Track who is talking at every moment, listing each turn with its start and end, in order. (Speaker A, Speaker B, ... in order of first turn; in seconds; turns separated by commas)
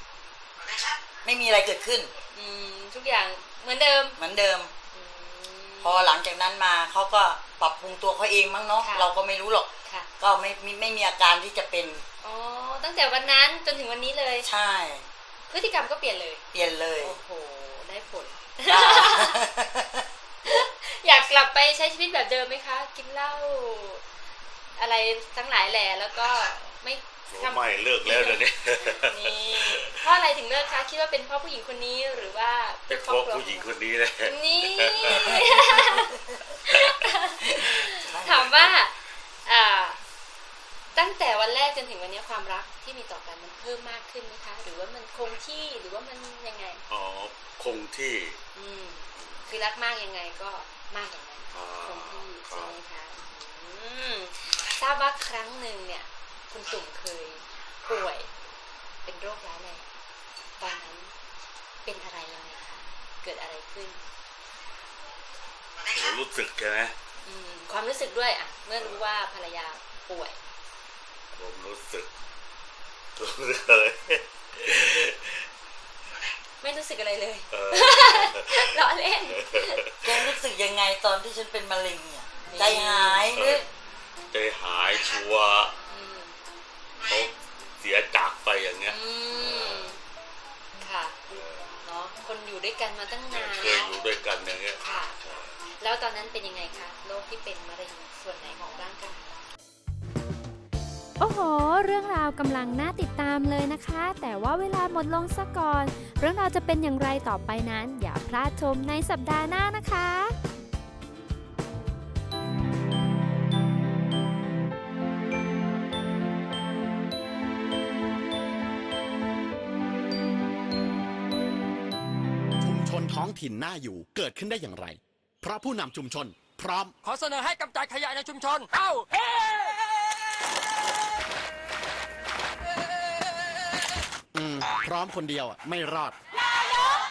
Speaker A: 1.2-2.1, Speaker B: 2.3-4.2, Speaker A: 4.2-4.7, Speaker B: 4.9-6.1, Speaker A: 5.8-12.0, Speaker B: 8.8-9.1, Speaker B: 12.2-14.5, Speaker A: 14.4-15.1, Speaker B: 15.5-16.4, Speaker A: 16.5-17.1, Speaker B: 17.0-19.4, Speaker A: 18.7-20.0, Speaker B: 20.4-24.0, Speaker B: 24.8-28.4, Speaker C: 27.3-30.0, Speaker B: 29.0-33.7, Speaker C: 32.9-35.4, Speaker B: 34.2-36.1, Speaker B: 36.7-40.0, Speaker A: 38.1-38.7, Speaker B: 40.9-46.8, Speaker C: 46.9-48.4, Speaker B: 48.6-58.3, Speaker C: 51.5-52.7, Speaker B: 59.0-59.9, Speaker B: 60.6-61.1, Speaker B: 61.9-64.0, Speaker C: 65.9-66.9, Speaker B: 67.2-70.4, Speaker C: 71.4-72.1, Speaker C: 73.2-75.4, Speaker B: 76.6-79.8, Speaker C: 77.5-78.8, Speaker C: 79.3-79.9, Speaker A: 80.0-83.6, Speaker B: 82.5-83.2, Speaker C: 83.4-83.6, Speaker C: 84.3-85.7, Speaker B: 85.9-86.4, Speaker C: 87.1-90.0, Speaker B: 88.9-90.0, Speaker B: 90.8-93.9, Speaker C: 91.3-91.7, Speaker C: 93.3-95.5, Speaker B: 94.8-95.2, Speaker B: 95.8-99.3, Speaker D: 101.2-110.4, Speaker E: 122.6-126.9, Speaker F: 127.0-129.7, Speaker E: 134.3-136.2